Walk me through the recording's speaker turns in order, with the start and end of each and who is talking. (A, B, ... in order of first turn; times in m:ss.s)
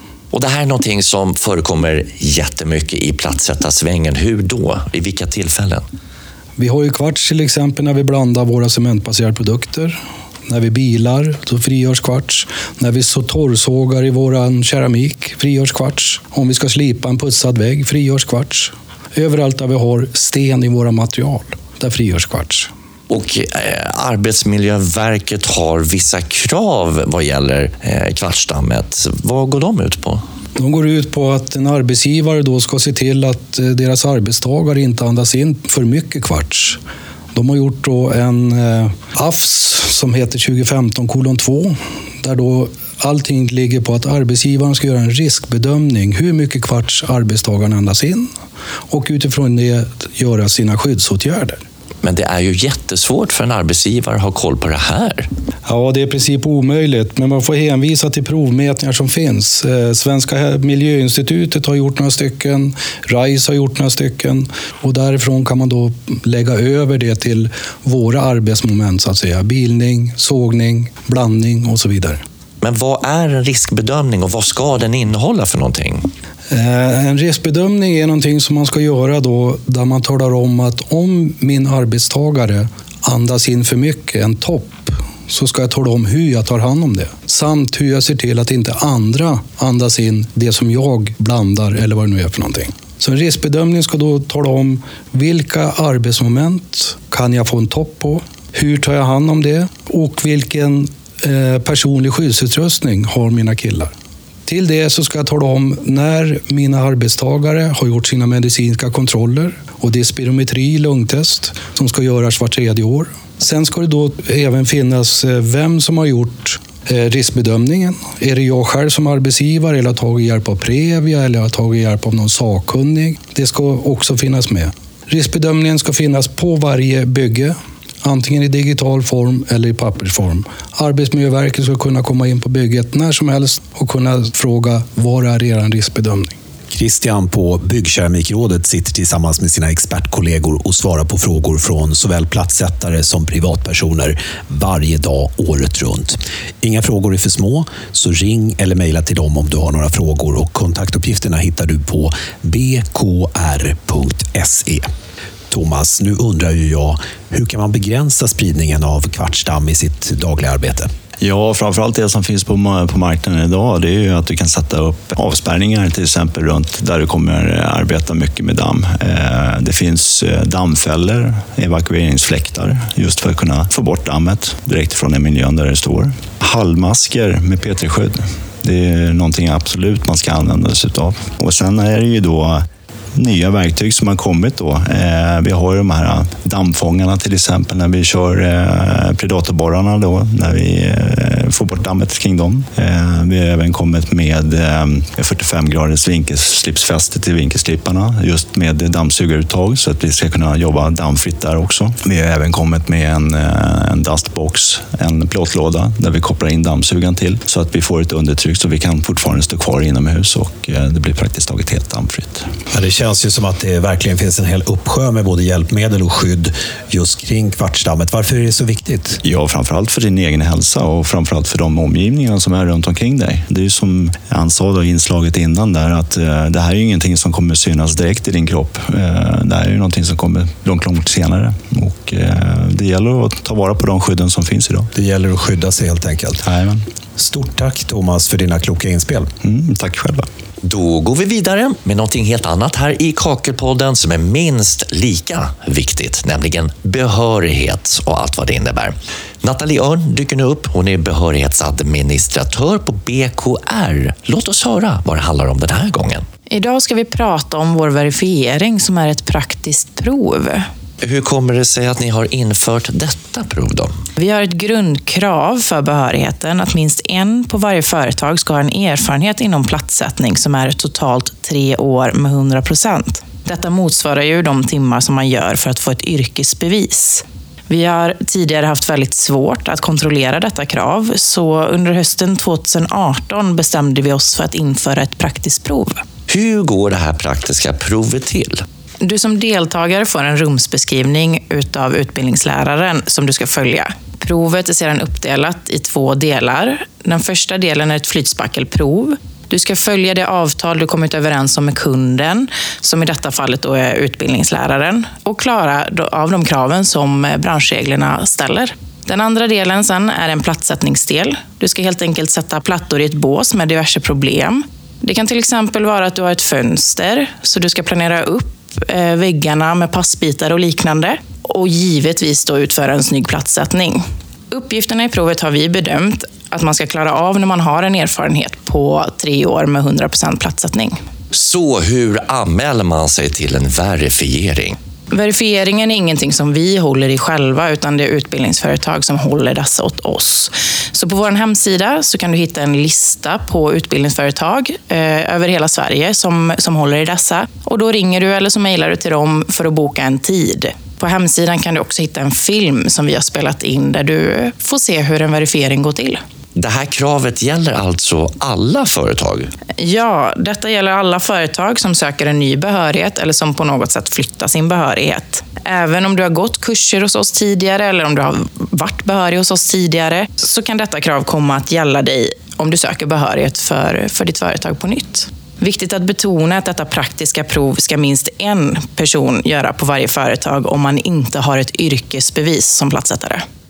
0:00.3-0:05.8 A
0:06.6-0:22.7 B
0:23.1-0:30.2 A
0:30.6-0:36.8 B
0:37.3-0:48.3 B
0:48.9-0:51.6 B
0:52.0-0:55.3 A
0:55.6-1:12.2 B
1:12.6-1:16.1 A
1:16.5-1:43.9 B
1:44.4-2:16.3 B
2:16.7-2:34.9 C
2:35.5-2:40.9 C
2:41.2-3:02.6 D
3:03.2-3:32.5 D
3:32.7-3:39.2 C
3:39.2-3:54.9 D
3:54.9-3:56.4 C
3:56.4-3:56.8 D
3:57.2-3:59.3 C
3:59.4-4:00.2 D
4:00.6-4:16.2 A
4:16.5-4:20.7 E
4:21.0-4:23.9 A
4:24.2-4:46.0 E
4:46.3-4:48.6 A
4:49.0-5:31.0 E
5:31.3-5:34.8 A
5:35.1-5:56.2 E
5:56.6-5:59.5 A
5:59.8-6:23.4 E